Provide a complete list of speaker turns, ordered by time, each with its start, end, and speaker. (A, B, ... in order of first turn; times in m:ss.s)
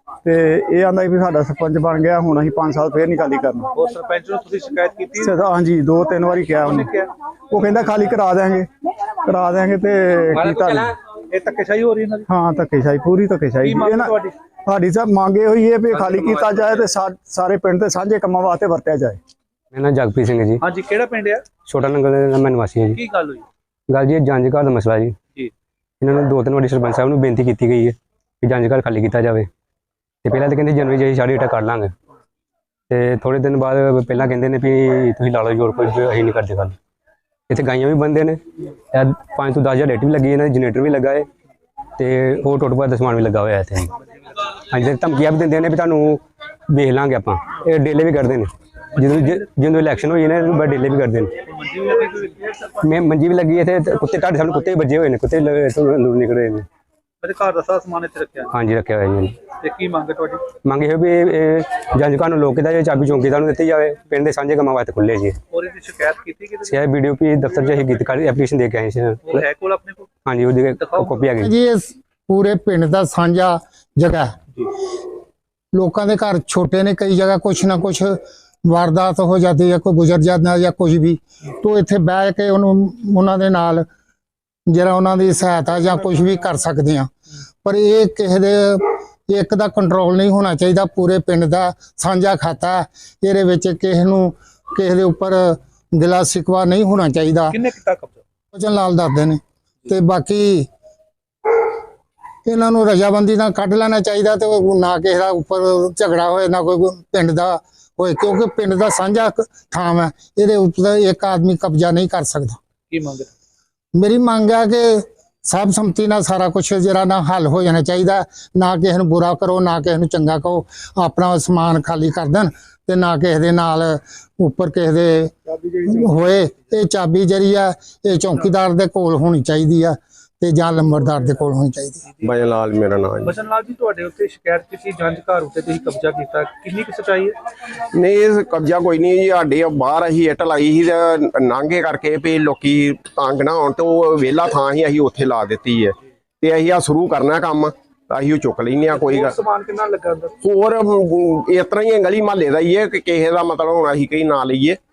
0:00.2-0:03.7 A
0:03.7-0:05.4 B
0:05.2-0:06.9 A
0:06.6-0:07.1 B
0:07.5-0:08.7 A
0:09.2-0:10.9 A
0:10.3-0:10.9 C
0:11.3-0:12.3 B
0:12.3-0:19.2 A
0:13.6-0:14.3 B
0:19.7-0:20.6 C
0:20.6-0:21.5 B
0:21.6-0:23.0 C
0:22.9-0:23.4 B
0:23.9-0:25.2 C
0:26.0-0:29.5 C
0:30.2-0:31.9 C
0:32.9-0:36.8 C
0:37.5-0:41.3 C
0:42.0-0:44.0 C
0:44.7-0:51.4 C
0:49.0-0:49.4 B
0:51.4-0:52.7 B
0:52.8-0:56.7 C
0:57.2-0:58.6 B
0:58.5-0:59.4 C
0:59.5-1:00.5 B
1:00.6-1:05.4 C
1:05.5-1:06.9 B
1:06.6-1:09.4 C
1:07.5-1:08.1 B
1:09.2-1:10.1 B
1:10.2-1:11.5 C
1:10.8-1:11.2 B
1:11.4-1:14.3 D
1:15.7-1:23.9 D
1:24.7-1:27.1 D
1:27.6-1:37.6 D
1:37.5-1:38.2 B
1:38.5-1:40.7 D
1:42.4-1:52.6 D
1:52.9-1:53.3 B
1:54.0-2:12.1 D
2:12.2-2:13.3 E
2:13.2-2:17.3 B
2:17.9-2:29.4 E
2:28.9-2:30.3 B
2:30.4-2:34.8 E